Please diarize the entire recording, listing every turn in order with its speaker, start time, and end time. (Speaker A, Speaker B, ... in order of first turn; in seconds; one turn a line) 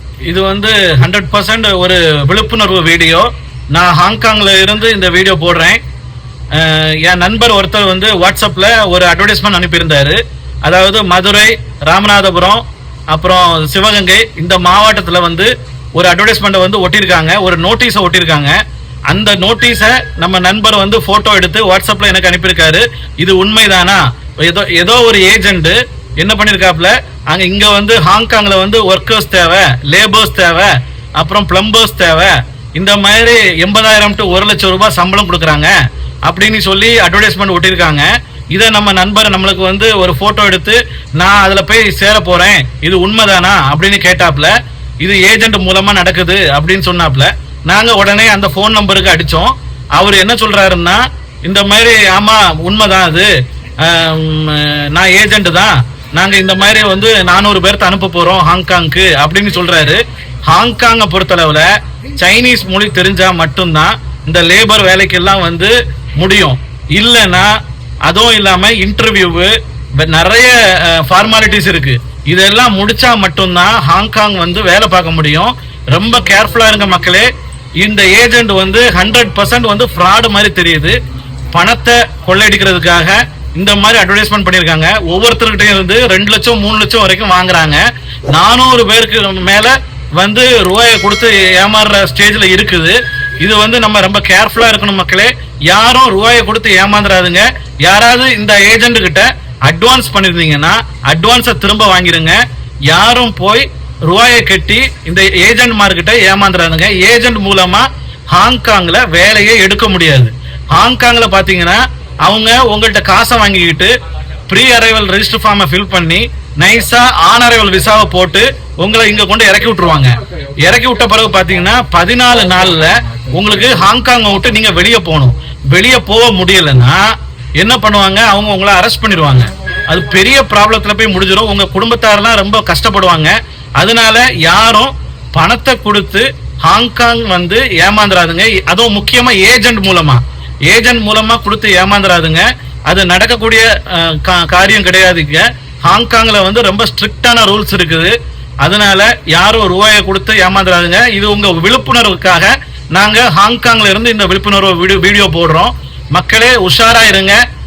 Speaker A: 0.2-5.8
Speaker A: 6.5-35.7
Speaker A: 36.2-80.9
Speaker A: 81.5-113.9
Speaker A: 114.5-157.4